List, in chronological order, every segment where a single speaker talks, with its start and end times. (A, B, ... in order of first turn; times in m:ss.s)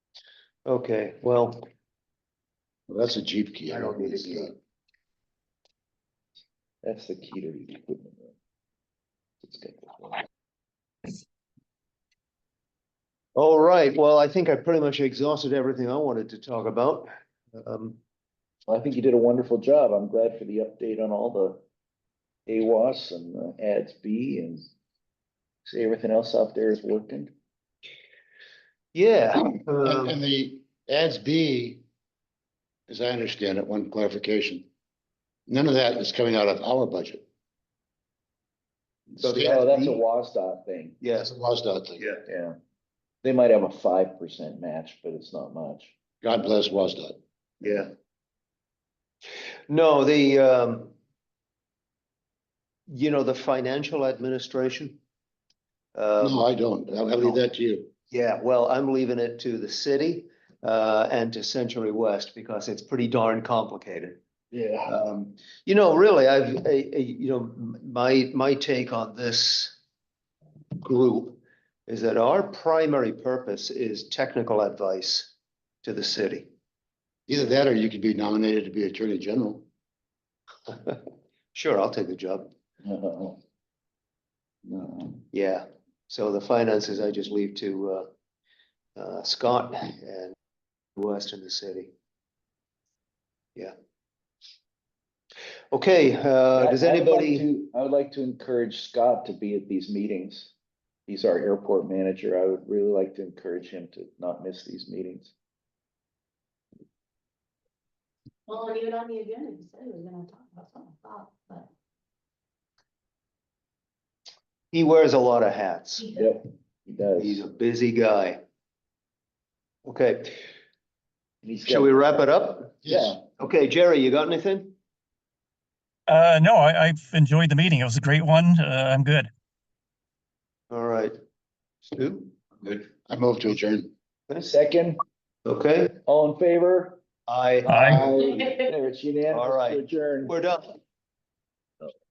0:00.7-0:01.6 A
0:02.9-0:04.6 B
0:03.7-0:04.6 A
0:06.8-0:08.4 C
0:09.4-0:10.2 C
0:13.4-0:18.0 A
0:18.7-0:21.6 C
0:22.5-0:24.7 C
0:25.7-0:27.3 C
0:28.9-0:30.2 A
0:29.4-0:31.8 B
0:32.9-0:34.7 B
0:35.5-0:37.2 B
0:39.1-0:39.5 B
0:39.2-0:40.0 A
0:39.4-0:41.0 C
0:41.0-0:41.3 A
0:41.2-0:42.0 B
0:42.3-0:42.6 C
0:43.2-0:46.0 C
0:46.2-0:47.7 B
0:47.6-0:47.9 A
0:49.7-0:50.9 A
0:52.9-0:55.0 A
0:56.0-0:56.4 A
0:56.2-0:57.9 B
0:58.1-1:04.2 A
1:04.5-1:04.9 C
1:04.9-1:09.8 A
1:10.8-1:15.3 A
1:15.8-1:16.5 A
1:17.3-1:19.7 B
1:20.7-1:21.0 A
1:21.5-1:22.5 A
1:22.8-1:23.4 C
1:24.7-1:25.2 C
1:25.3-1:28.1 A
1:29.0-1:30.4 A
1:31.0-1:31.9 A
1:35.7-1:37.5 A
1:36.6-1:40.5 C
1:41.1-1:45.3 C
1:48.5-1:51.7 D
1:54.7-1:56.1 A
1:56.1-1:57.4 C
1:57.2-1:58.4 A
1:59.8-2:00.3 A
2:01.4-2:02.0 C
2:01.6-2:04.7 A
2:02.8-2:03.2 C
2:06.1-2:09.3 E
2:10.7-2:11.2 A
2:11.8-2:12.3 A
2:12.6-2:13.9 B
2:14.4-2:15.0 C
2:15.5-2:16.0 A
2:16.1-2:17.0 C
2:17.3-2:18.3 A
2:17.6-2:18.0 E
2:17.8-2:20.4 C
2:19.3-2:20.8 A